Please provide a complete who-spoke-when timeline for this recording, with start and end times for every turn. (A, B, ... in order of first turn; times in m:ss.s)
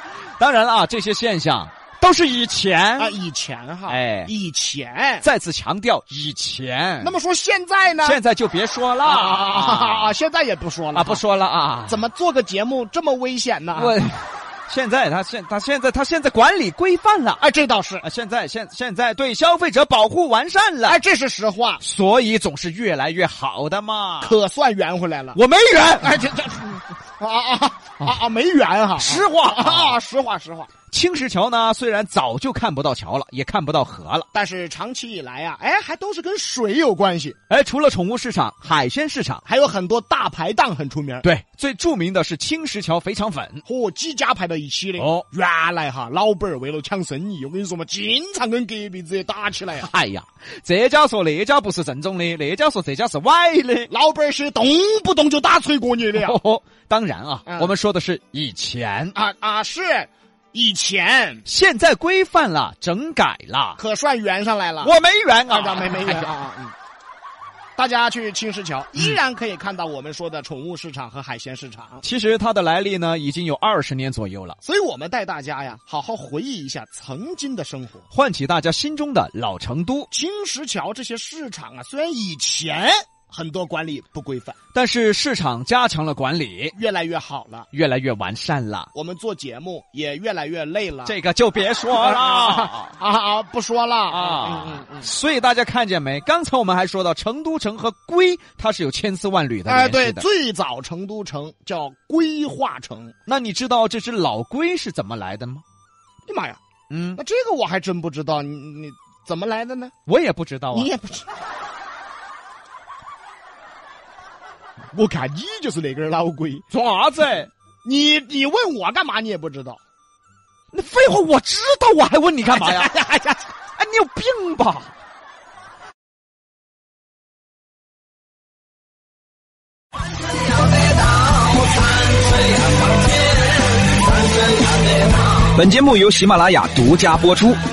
0:00.4-0:03.2 A
0:03.0-0:05.3 B
0:03.9-0:04.3 A
0:05.2-0:07.1 A
0:07.0-0:08.2 B
0:08.0-0:10.2 A
0:09.0-0:11.2 B
0:10.9-0:12.0 A
0:11.9-0:14.0 B
0:13.7-0:17.4 A
0:17.4-0:18.0 B
0:18.0-0:21.0 A
0:20.8-0:21.8 B
0:21.8-0:24.4 A
0:24.2-0:25.4 B
0:25.3-0:26.3 A
0:26.0-0:30.7 B
0:29.0-0:30.0 A
0:30.9-0:34.3 A
0:34.3-0:37.4 B
0:37.5-0:39.4 A
0:39.4-0:41.2 B
0:41.2-0:43.6 A
0:43.6-0:49.9 B
0:45.0-0:45.2 A
0:49.7-0:53.9 A
0:53.9-0:56.4 B
0:56.1-0:59.2 A
0:57.4-0:57.7 B
0:59.1-1:01.4 B
1:01.4-1:03.8 A
1:03.8-1:04.9 B
1:04.8-1:06.3 A
1:05.4-1:06.7 B
1:07.8-1:12.0 B
1:12.0-1:14.6 A
1:14.6-1:18.0 B
1:18.1-1:20.1 A
1:20.1-1:24.6 B
1:24.7-1:26.7 A
1:26.7-1:27.7 B
1:27.7-1:28.9 A
1:28.9-1:31.2 B
1:31.0-1:32.9 A
1:32.0-1:35.1 B
1:34.1-1:40.2 A
1:39.6-1:43.1 B
1:43.3-1:45.6 A
1:46.3-1:46.6 B
1:46.9-1:47.2 A
1:47.2-1:49.9 B
1:50.0-1:50.9 A
1:50.7-1:51.3 B
1:54.9-1:56.6 B
1:56.7-1:57.5 A
1:57.8-1:59.8 B
2:00.7-2:04.9 A
2:02.6-2:02.9 B
2:15.5-2:17.6 C